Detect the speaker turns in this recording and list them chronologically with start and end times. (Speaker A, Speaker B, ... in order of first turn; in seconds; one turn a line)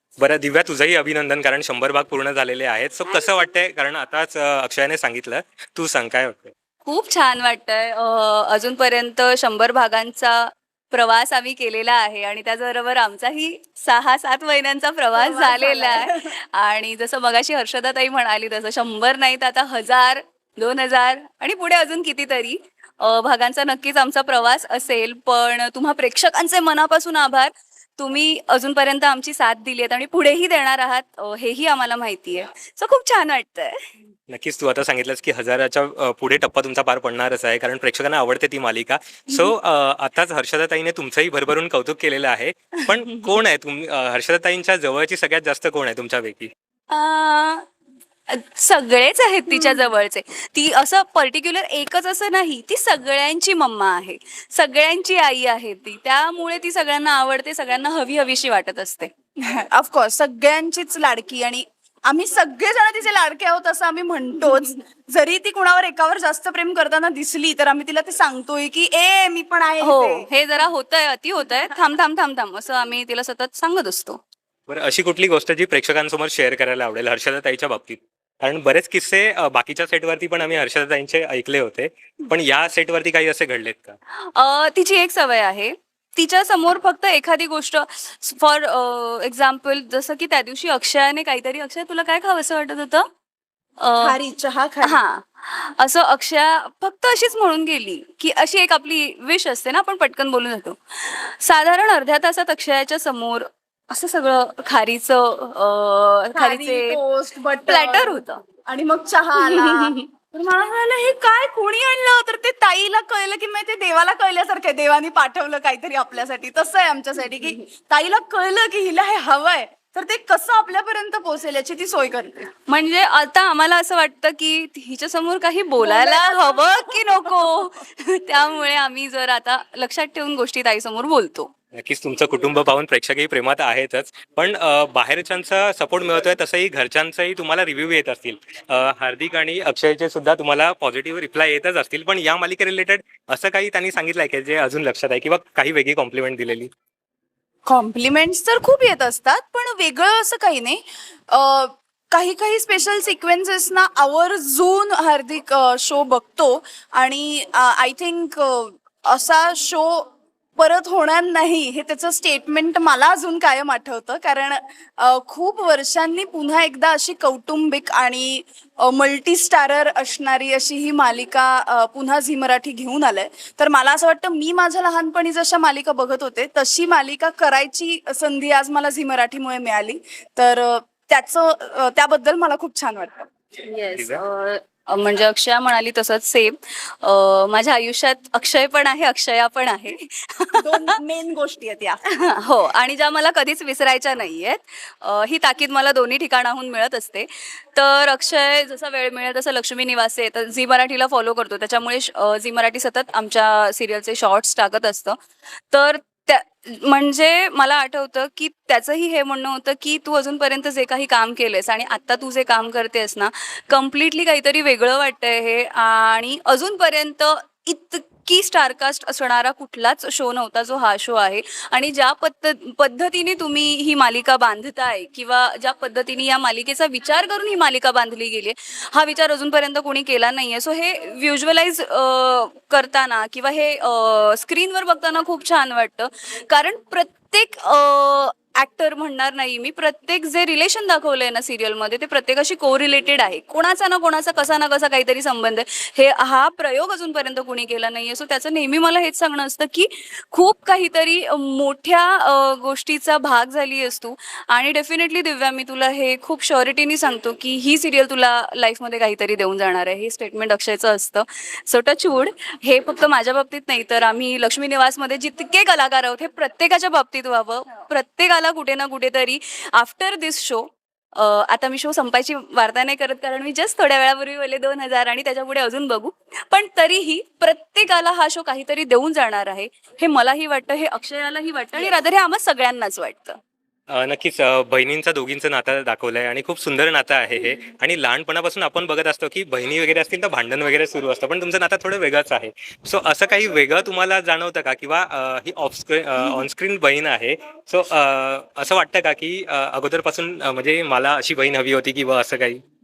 Speaker A: 0.2-6.5
Speaker B: 6.8-33.7
Speaker C: 15.1-16.3
Speaker A: 34.3-46.5
Speaker B: 46.9-47.6
Speaker B: 48.3-59.1
Speaker C: 49.5-49.9
Speaker C: 59.4-70.3
Speaker B: 69.8-74.2
Speaker A: 74.7-84.0
Speaker B: 84.4-93.0
Speaker B: 93.8-94.2
Speaker C: 94.0-95.0
Speaker B: 94.8-107.0
Speaker C: 106.3-122.5
Speaker B: 107.7-108.4
Speaker B: 109.4-110.0
Speaker B: 122.7-131.5
Speaker C: 125.8-127.0
Speaker A: 131.7-146.7
Speaker C: 147.7-183.3
Speaker B: 183.7-190.9
Speaker A: 183.9-184.2
Speaker C: 190.6-192.0
Speaker B: 192.1-205.2
Speaker B: 205.7-283.4
Speaker A: 283.9-302.6